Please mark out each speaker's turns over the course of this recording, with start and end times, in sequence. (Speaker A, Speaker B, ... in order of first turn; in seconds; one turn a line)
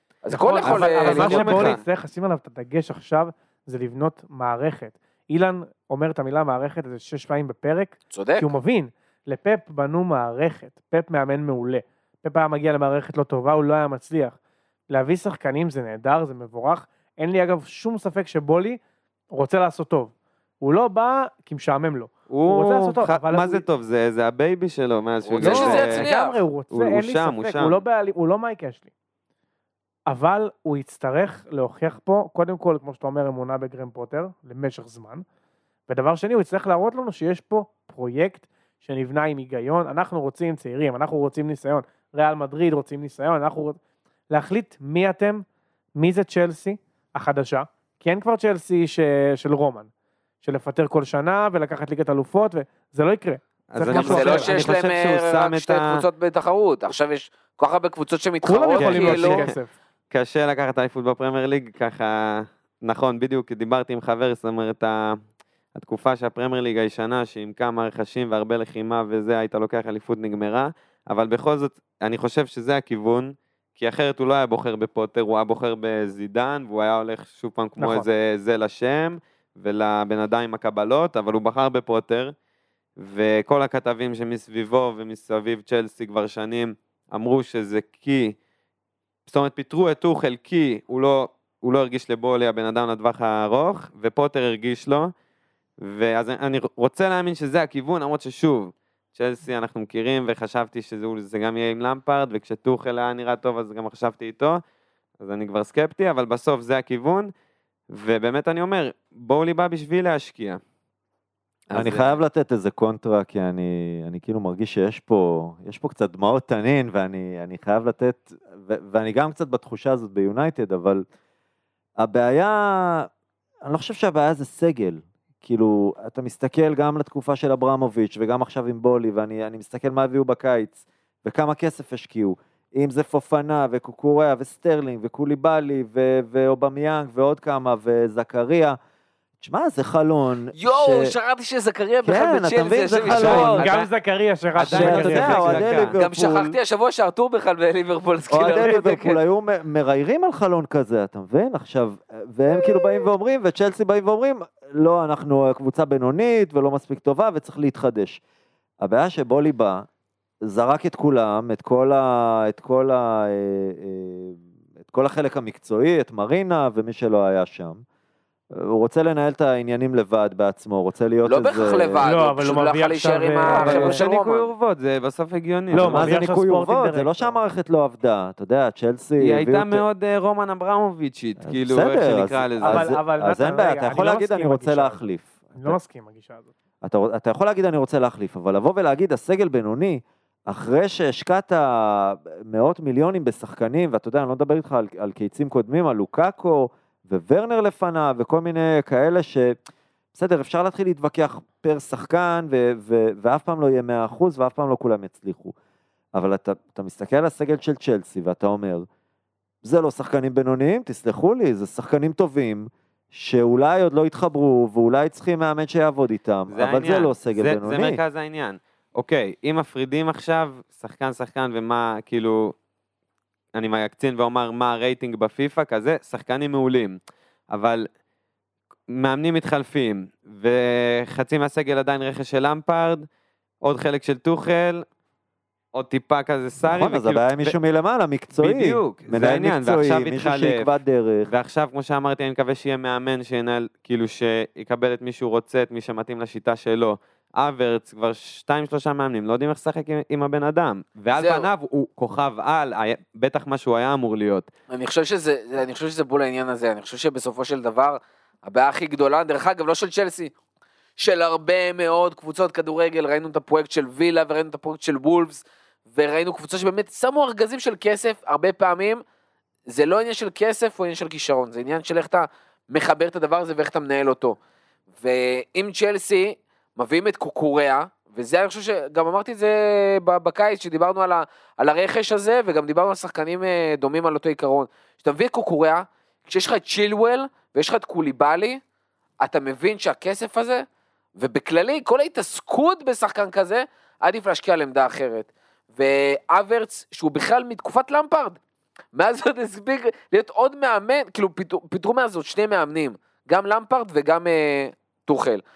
Speaker A: 0.2-1.8
Speaker B: 0.3-14.3
Speaker C: 0.6-1.8
Speaker A: 8.1-8.5
Speaker B: 14.9-18.8
Speaker B: 19.3-23.6
Speaker C: 22.3-26.1
Speaker A: 25.2-26.4
Speaker B: 25.4-28.9
Speaker C: 26.7-27.8
Speaker B: 30.1-35.2
Speaker B: 35.9-43.8
Speaker B: 44.3-45.4
Speaker B: 46.0-49.9
Speaker B: 50.4-54.6
Speaker C: 53.7-56.0
Speaker A: 53.9-59.5
Speaker B: 58.4-59.7
Speaker C: 58.8-59.5
Speaker C: 60.1-65.2
Speaker C: 65.7-82.3
Speaker B: 77.8-78.1
Speaker C: 83.0-88.3
Speaker C: 89.2-95.1
Speaker C: 95.8-104.6
Speaker C: 105.2-107.3
Speaker C: 107.9-110.6
Speaker C: 111.7-112.2
Speaker D: 111.7-121.0
Speaker D: 122.0-123.1
Speaker D: 123.6-138.8
Speaker D: 139.4-141.1
Speaker A: 140.5-143.8
Speaker D: 142.0-143.7
Speaker C: 143.1-143.8
Speaker B: 143.3-145.6
Speaker C: 144.5-145.9
Speaker D: 144.6-146.6
Speaker A: 145.9-149.2
Speaker D: 148.3-158.2
Speaker D: 158.8-159.8
Speaker D: 160.4-167.8
Speaker D: 168.5-172.0
Speaker A: 171.2-174.5
Speaker B: 172.0-174.0
Speaker C: 173.4-176.1
Speaker D: 175.7-179.8
Speaker B: 175.7-177.4
Speaker C: 179.2-182.9
Speaker D: 181.4-185.8
Speaker B: 182.6-185.0
Speaker B: 185.6-186.5
Speaker D: 186.8-199.6
Speaker D: 200.1-205.5
Speaker D: 206.1-208.8
Speaker D: 209.6-218.0
Speaker C: 216.5-222.5
Speaker C: 223.5-227.0
Speaker C: 227.5-227.9
Speaker C: 228.9-233.0
Speaker C: 233.6-234.8
Speaker C: 235.7-237.5
Speaker D: 236.6-241.3
Speaker C: 238.4-254.5
Speaker A: 251.1-251.5
Speaker A: 254.7-260.3
Speaker A: 261.0-269.0
Speaker A: 269.7-274.4
Speaker A: 275.0-288.6
Speaker A: 289.2-290.6
Speaker A: 291.1-298.4
Speaker A: 298.9-305.4